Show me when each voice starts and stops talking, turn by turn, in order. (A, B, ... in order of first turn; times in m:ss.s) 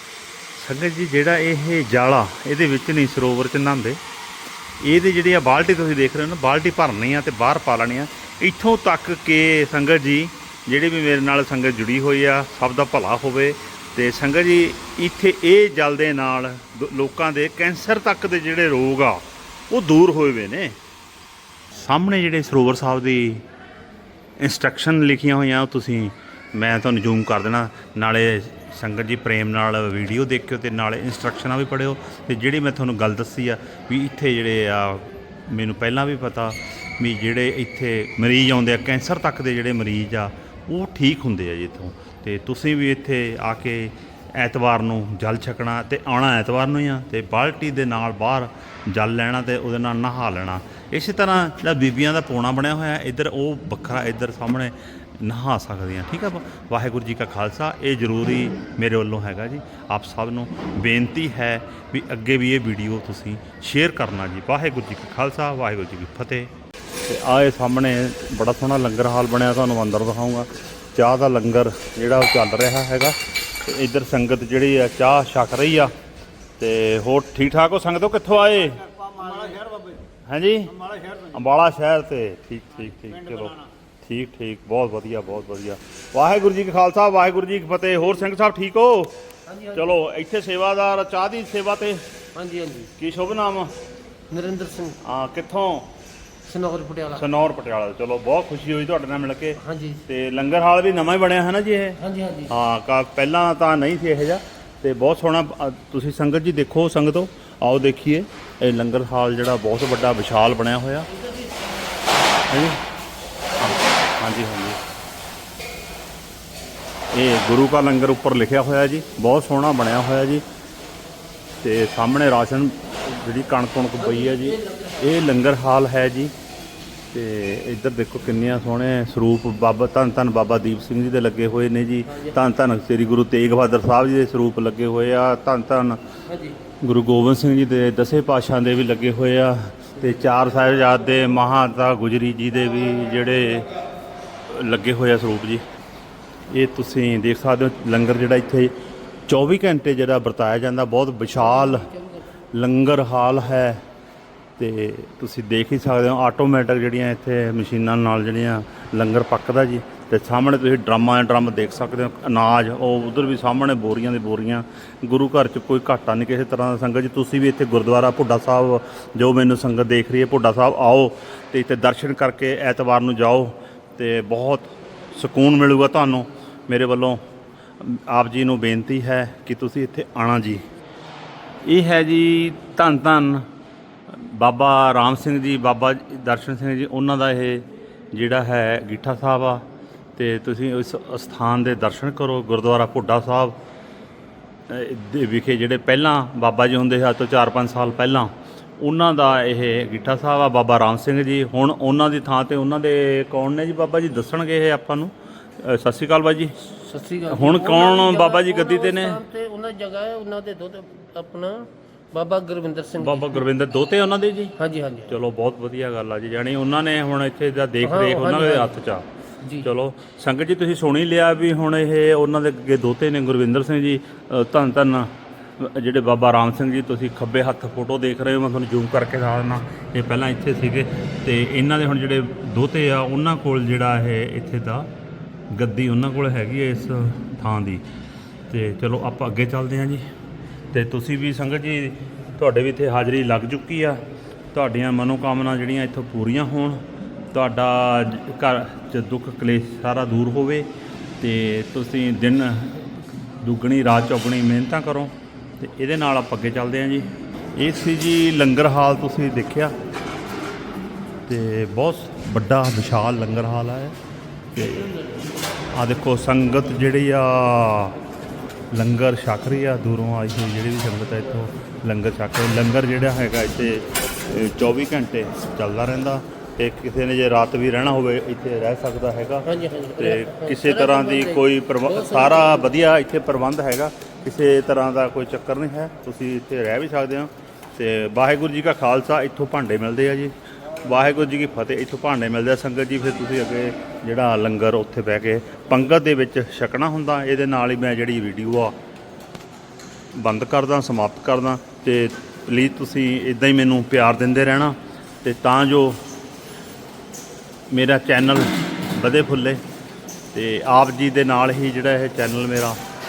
0:00.6-0:04.0 A
0:04.8-0:20.8 A
0:21.7-0:23.4 A
0:24.4-1:06.5 A
1:07.0-1:15.9 A
1:16.6-1:19.4 A
1:20.2-1:32.0 A
1:29.5-1:29.8 B
1:32.4-1:32.9 B
1:33.0-1:33.7 A
1:34.3-1:35.0 B
1:35.0-1:35.9 A
1:36.5-1:37.2 B
1:37.1-1:51.1 A
1:39.6-1:40.0 B
1:42.0-1:42.5 B
1:52.5-1:52.8 A
1:53.6-1:54.8 A
1:57.1-2:00.4 A
2:01.6-2:06.3 A
2:04.1-2:05.0 B
2:07.1-2:16.0 A
2:16.3-2:16.6 B
2:16.8-2:23.7 A
2:24.5-2:25.6 A
2:26.5-2:28.8 A
2:29.3-2:32.0 A
2:32.5-2:33.8 A
2:34.6-2:57.2 A
2:57.8-3:00.6 A
3:01.6-3:03.5 A
3:04.1-3:09.6 A
3:10.2-3:13.6 A
3:14.7-3:26.7 A
3:26.7-3:33.4 B
3:27.3-3:29.2 A
3:33.0-3:54.9 A
3:34.6-3:35.1 B
3:37.8-3:38.7 B
3:55.5-3:57.8 A
3:58.5-4:00.0 A
4:00.7-4:04.0 A
4:04.5-4:10.7 A
4:11.2-4:19.7 A
4:21.3-4:24.0 A
4:24.5-4:25.0 A
4:25.7-4:28.0 A
4:28.7-4:58.8 A
4:39.5-4:42.7 B
5:00.2-5:06.0 A
5:07.7-5:09.6 A
5:10.3-5:12.8 A